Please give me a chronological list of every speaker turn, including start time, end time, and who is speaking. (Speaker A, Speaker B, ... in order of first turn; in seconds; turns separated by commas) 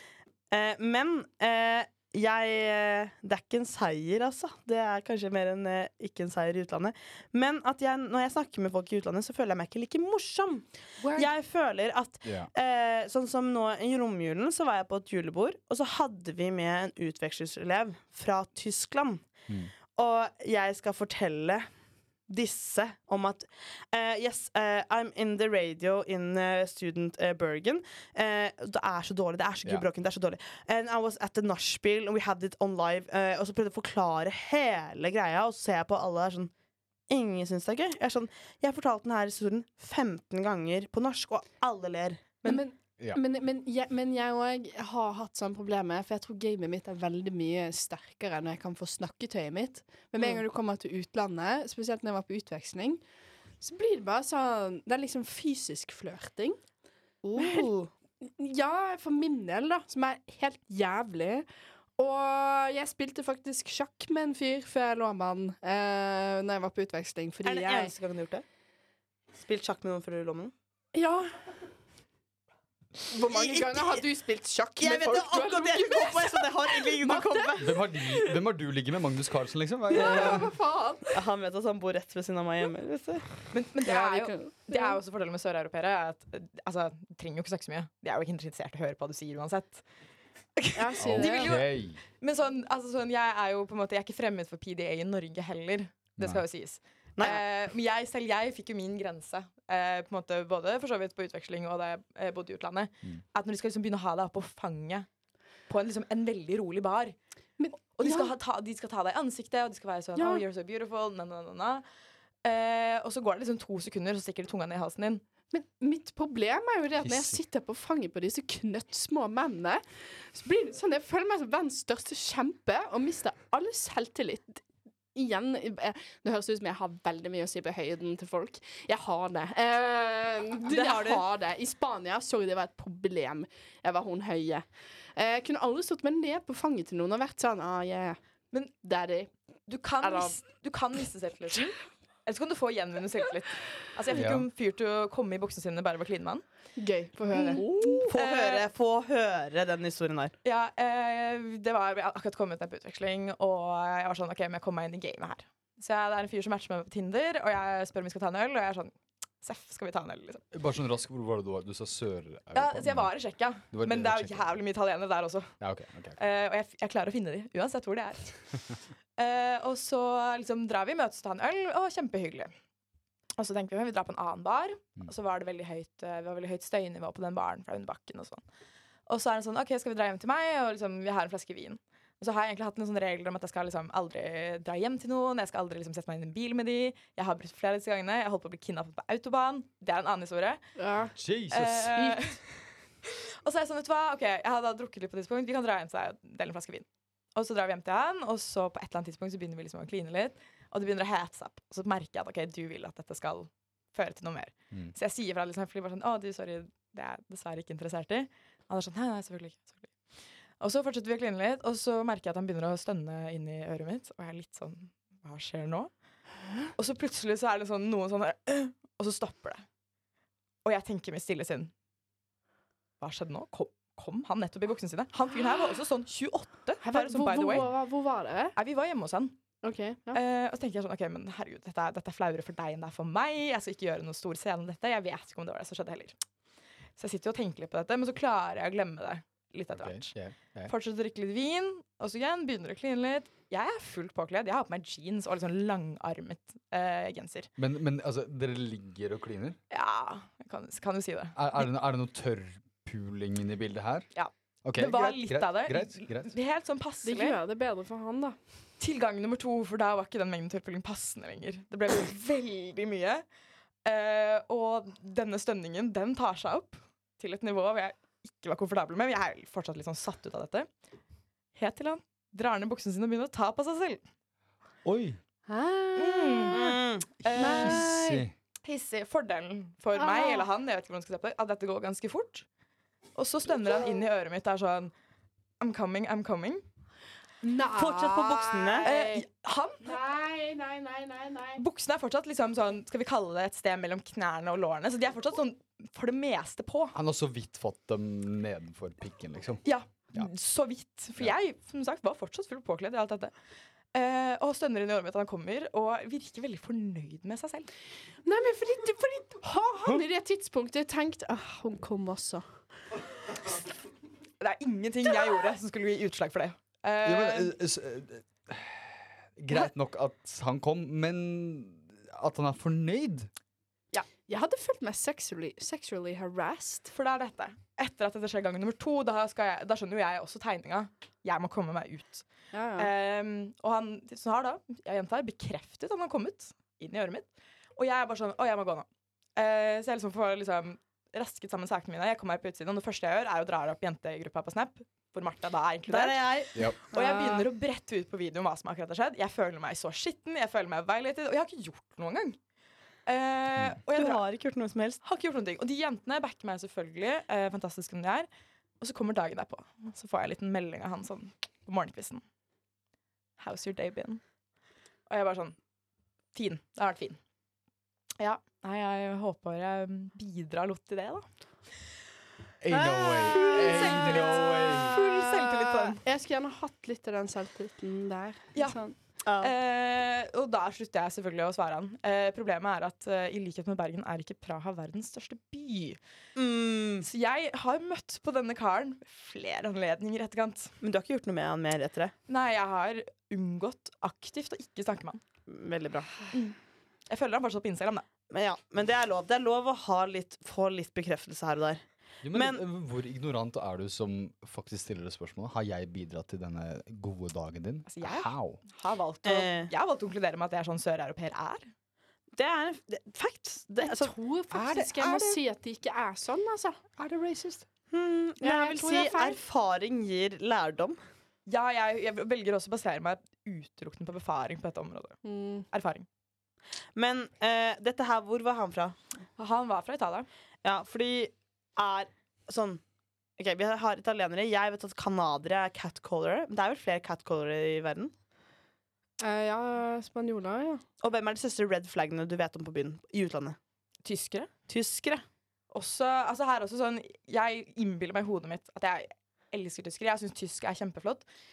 Speaker A: 0.5-19.2, Speaker B: 12.2-12.5, Speaker A: 19.9-21.7, Speaker A: 22.3-36.5, Speaker A: 37.1-42.6, Speaker C: 42.4-53.0, Speaker C: 53.6-56.6, Speaker A: 57.2-57.9, Speaker C: 57.4-57.7, Speaker C: 58.2-61.5, Speaker C: 62.0-67.9, Speaker A: 67.4-68.4, Speaker A: 69.4-70.5, Speaker C: 70.9-71.3, Speaker C: 73.1-78.3, Speaker A: 73.2-74.0, Speaker A: 74.8-77.7, Speaker B: 77.6-80.5, Speaker C: 79.9-81.2, Speaker A: 80.0-80.5, Speaker A: 81.1-83.2, Speaker D: 83.5-89.8, Speaker C: 83.8-85.0, Speaker D: 90.6-105.1, Speaker C: 90.7-91.5, Speaker B: 91.0-92.0, Speaker D: 105.7-107.2, Speaker C: 107.6-108.3, Speaker D: 107.9-111.8, Speaker C: 110.2-110.4, Speaker D: 112.4-115.2, Speaker C: 115.5-124.6, Speaker B: 117.0-117.4, Speaker C: 125.1-138.2, Speaker A: 130.7-131.2, Speaker C: 138.8-139.3, Speaker D: 139.7-146.4, Speaker C: 140.0-140.3, Speaker B: 144.1-144.5, Speaker C: 146.8-148.1, Speaker D: 147.3-148.6, Speaker A: 147.6-150.3, Speaker D: 150.4-160.4, Speaker B: 160.5-163.1, Speaker D: 162.5-165.5, Speaker B: 163.7-164.5, Speaker B: 165.6-166.2, Speaker D: 166.2-168.6, Speaker D: 169.2-172.5, Speaker D: 173.4-178.4, Speaker D: 179.1-190.6, Speaker C: 190.8-191.1, Speaker B: 191.1-192.2, Speaker D: 191.5-192.4, Speaker D: 193.0-209.8, Speaker D: 210.6-215.9, Speaker D: 216.8-219.6, Speaker D: 220.6-221.7, Speaker D: 223.0-227.7, Speaker C: 226.8-228.5, Speaker D: 228.6-229.4, Speaker C: 229.6-230.2, Speaker D: 230.1-236.2, Speaker D: 237.0-240.1, Speaker B: 239.7-240.7, Speaker D: 240.7-247.5, Speaker B: 247.6-249.6, Speaker D: 249.7-251.6, Speaker B: 251.3-254.1, Speaker D: 254.1-257.4, Speaker B: 254.6-256.3, Speaker C: 257.0-258.4, Speaker D: 258.8-263.2, Speaker D: 263.8-270.7, Speaker D: 271.5-274.0, Speaker B: 274.8-275.2, Speaker C: 275.5-276.8, Speaker D: 275.9-282.4, Speaker A: 276.5-277.1, Speaker B: 277.2-278.3, Speaker C: 277.4-277.9, Speaker C: 279.9-280.5, Speaker D: 283.1-284.9, Speaker D: 285.6-286.6, Speaker C: 287.4-289.2, Speaker A: 287.7-288.9, Speaker D: 288.8-290.0, Speaker C: 289.8-291.6, Speaker D: 291.6-296.9, Speaker B: 296.9-299.6, Speaker D: 299.6-303.3, Speaker D: 303.9-307.7, Speaker C: 308.2-312.4, Speaker D: 314.4-317.5, Speaker B: 317.0-323.3, Speaker C: 324.3-326.9, Speaker D: 326.9-352.4, Speaker C: 332.5-332.9, Speaker A: 345.9-347.4, Speaker D: 353.1-354.2, Speaker A: 353.9-355.0, Speaker D: 355.0-358.3, Speaker D: 358.8-362.2, Speaker D: 363.4-364.2, Speaker D: 365.1-365.6, Speaker D: 366.3-367.2, Speaker D: 368.2-371.2, Speaker B: 372.6-375.0, Speaker A: 372.7-374.2, Speaker D: 373.3-376.0, Speaker C: 374.9-378.9, Speaker A: 379.2-379.5, Speaker D: 379.4-386.0, Speaker A: 386.4-387.1, Speaker D: 387.0-390.7, Speaker A: 390.8-392.1, Speaker D: 392.3-395.2, Speaker A: 395.5-396.1, Speaker D: 396.3-396.6, Speaker D: 397.1-398.0, Speaker A: 398.3-401.8, Speaker B: 402.2-408.6, Speaker A: 402.3-402.6, Speaker D: 407.9-411.7, Speaker A: 409.2-409.7, Speaker A: 412.4-414.1, Speaker C: 413.8-416.9, Speaker B: 414.5-415.4, Speaker B: 417.0-417.6, Speaker A: 417.9-421.0, Speaker C: 418.4-419.4, Speaker D: 421.5-425.2, Speaker C: 425.2-425.6, Speaker D: 425.7-426.1, Speaker A: 426.9-428.9, Speaker D: 429.4-430.3, Speaker A: 430.6-432.8, Speaker A: 433.4-438.1, Speaker C: 439.2-440.8, Speaker A: 441.0-443.6, Speaker D: 444.0-444.5, Speaker A: 444.7-445.2, Speaker D: 445.7-451.2